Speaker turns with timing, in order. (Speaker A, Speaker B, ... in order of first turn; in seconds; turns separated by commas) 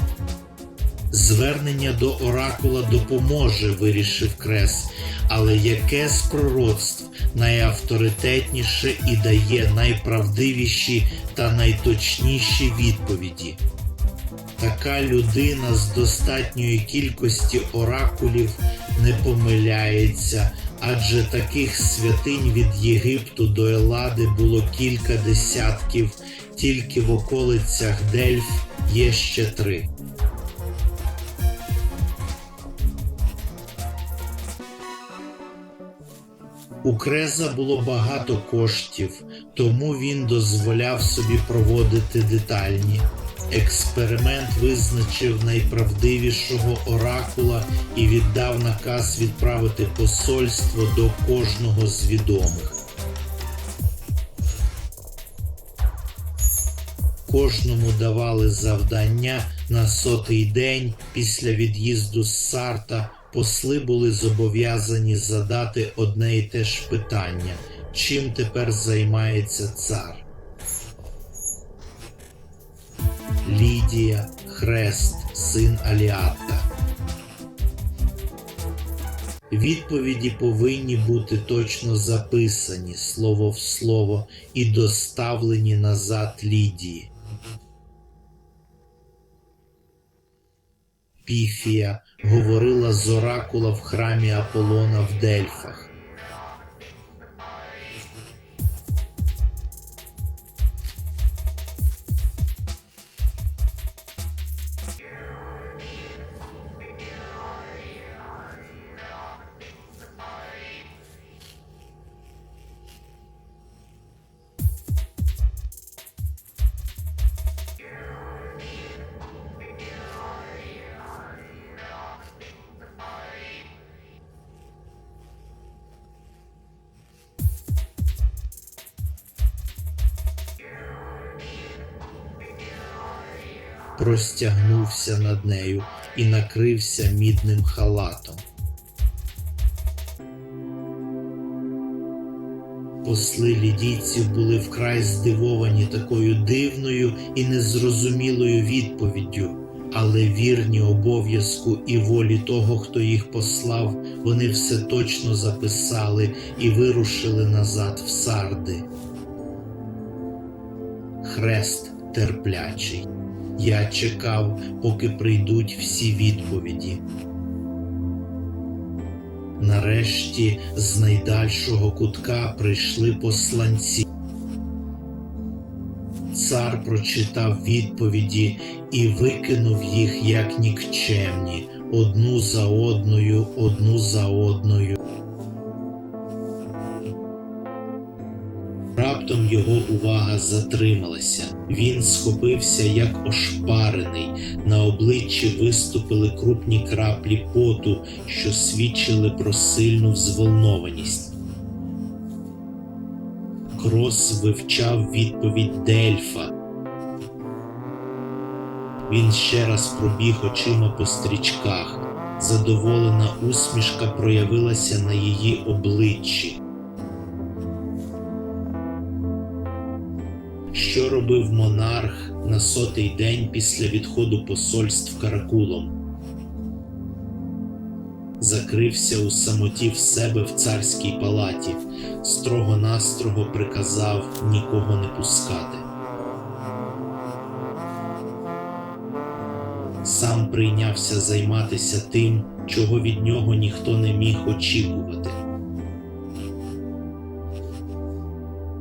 Speaker A: 1.1-13.6, Speaker A: 14.6-29.9, Speaker A: 36.8-52.8, Speaker A: 57.3-70.2, Speaker A: 73.4-76.7, Speaker A: 79.5-87.1, Speaker A: 91.2-95.9, Speaker A: 134.0-138.4, Speaker A: 143.0-158.8, Speaker A: 161.2-167.0, Speaker A: 169.6-174.1, Speaker A: 176.3-185.0, Speaker A: 188.9-201.3, Speaker A: 203.8-206.5, Speaker A: 209.1-216.6, Speaker A: 220.7-225.9, Speaker A: 228.4-235.8, Speaker A: 240.0-245.4